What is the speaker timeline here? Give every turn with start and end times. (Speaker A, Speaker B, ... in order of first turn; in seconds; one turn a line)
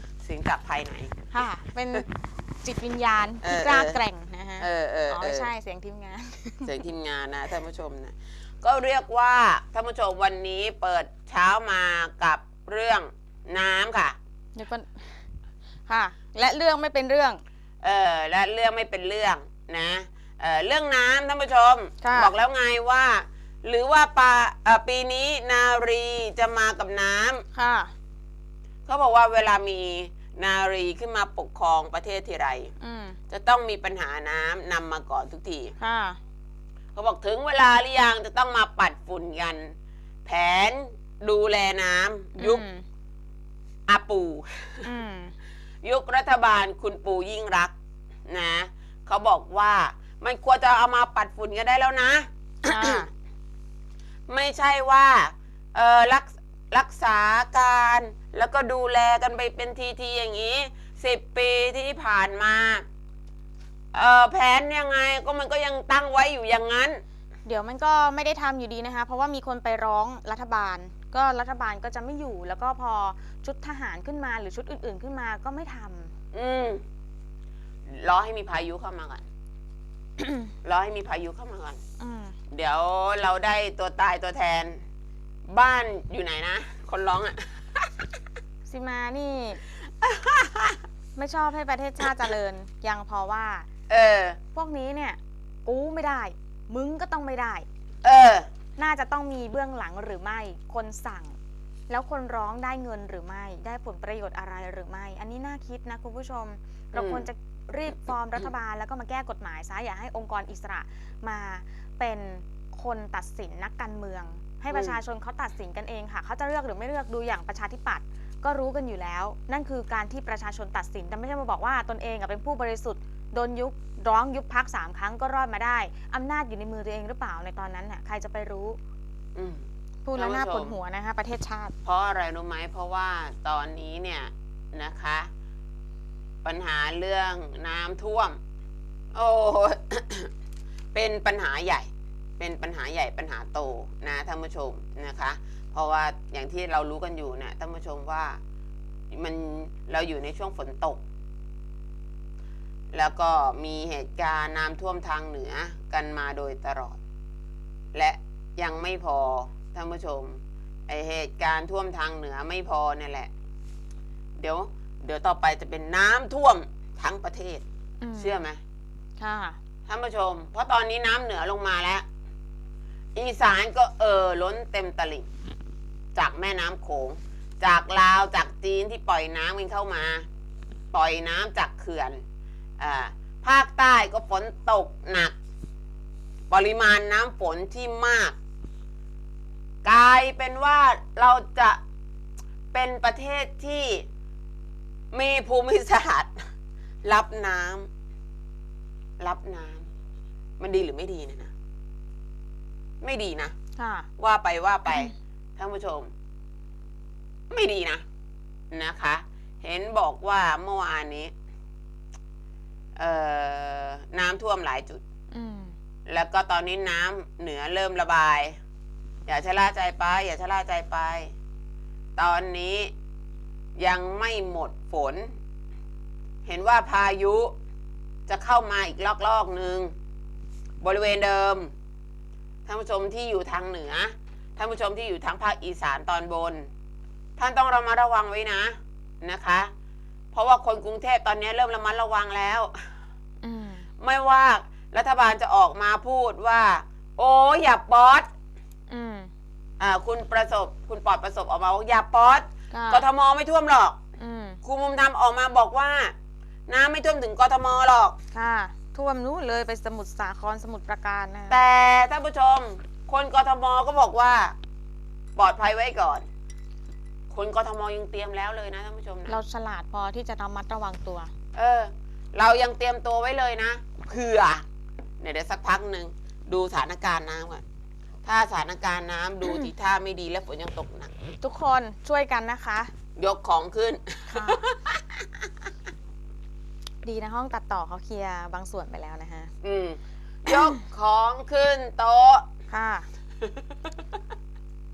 Speaker A: 0.2-1.2
Speaker B: 1.3-2.1
Speaker B: 2.6-6.7
Speaker A: 3.4-4.0
Speaker A: 4.6-5.5
Speaker A: 6.7-14.2
Speaker B: 14.6-15.3
Speaker B: 15.9-17.4
Speaker A: 17.8-27.4
Speaker B: 22.0-22.3
Speaker B: 27.5-27.9
Speaker A: 28.9-32.7
Speaker B: 32.8-33.2
Speaker A: 33.3-35.8
Speaker B: 35.8-36.2
Speaker A: 37.0-42.6
Speaker B: 42.4-42.8
Speaker A: 43.9-44.9
Speaker B: 44.9-45.3
Speaker A: 45.8-47.7
Speaker A: 48.3-53.0
Speaker B: 52.7-53.1
Speaker A: 54.3-62.9
Speaker A: 63.9-67.0
Speaker B: 67.5-76.1
Speaker A: 76.3-76.8
Speaker A: 77.9-79.3
Speaker B: 80.2-80.5
Speaker A: 80.6-81.8
Speaker B: 82.0-82.4
Speaker A: 82.5-84.8
Speaker A: 85.5-87.9
Speaker B: 88.7-89.6
Speaker A: 90.0-90.8
Speaker B: 91.2-93.7
Speaker A: 93.9-94.4
Speaker B: 94.5-97.7
Speaker A: 98.0-98.5
Speaker B: 98.8-101.3
Speaker B: 101.9-128.8
Speaker A: 107.0-107.3
Speaker A: 114.7-115.0
Speaker A: 129.3-130.8
Speaker B: 130.1-131.7
Speaker A: 131.8-135.3
Speaker A: 136.4-138.4
Speaker A: 139.1-140.3
Speaker A: 140.9-148.4
Speaker A: 149.1-151.0
Speaker A: 152.9-157.0
Speaker A: 157.9-163.3
Speaker A: 164.4-167.6
Speaker B: 168.0-168.4
Speaker A: 168.2-168.6
Speaker B: 169.2-169.6
Speaker A: 169.9-172.1
Speaker A: 173.2-175.3
Speaker A: 176.2-180.3
Speaker A: 180.9-182.2
Speaker A: 182.8-185.3
Speaker A: 186.5-188.4
Speaker A: 189.8-191.8
Speaker A: 192.7-194.1
Speaker A: 195.1-196.5
Speaker A: 197.0-197.9
Speaker A: 199.2-199.9
Speaker A: 200.6-201.5
Speaker A: 203.0-203.6
Speaker B: 203.8-204.1
Speaker A: 204.2-206.1
Speaker B: 204.9-205.1
Speaker A: 207.5-208.0
Speaker A: 208.7-211.3
Speaker A: 213.0-215.0
Speaker B: 215.3-215.8
Speaker A: 216.1-218.6
Speaker A: 219.3-221.3
Speaker A: 222.2-222.9
Speaker A: 223.8-225.3
Speaker A: 226.4-227.5
Speaker A: 228.3-229.9
Speaker A: 230.8-231.7
Speaker A: 232.7-236.7
Speaker A: 237.4-239.7
Speaker A: 240.3-242.9
Speaker B: 243.4-243.9
Speaker A: 244.0-248.3
Speaker B: 248.9-249.3
Speaker A: 249.8-254.0
Speaker B: 252.7-253.1
Speaker B: 254.2-254.6
Speaker A: 254.6-256.1
Speaker A: 256.7-258.2
Speaker B: 258.3-261.6
Speaker A: 261.5-264.6
Speaker A: 265.4-266.3
Speaker A: 267.3-269.4
Speaker B: 269.3-271.3
Speaker A: 271.6-274.6
Speaker A: 275.2-277.6
Speaker A: 278.2-281.1
Speaker B: 281.4-282.9
Speaker A: 283.2-285.3
Speaker B: 284.3-284.6
Speaker B: 287.0-289.5
Speaker A: 289.6-292.5
Speaker B: 290.5-290.8
Speaker B: 292.7-293.1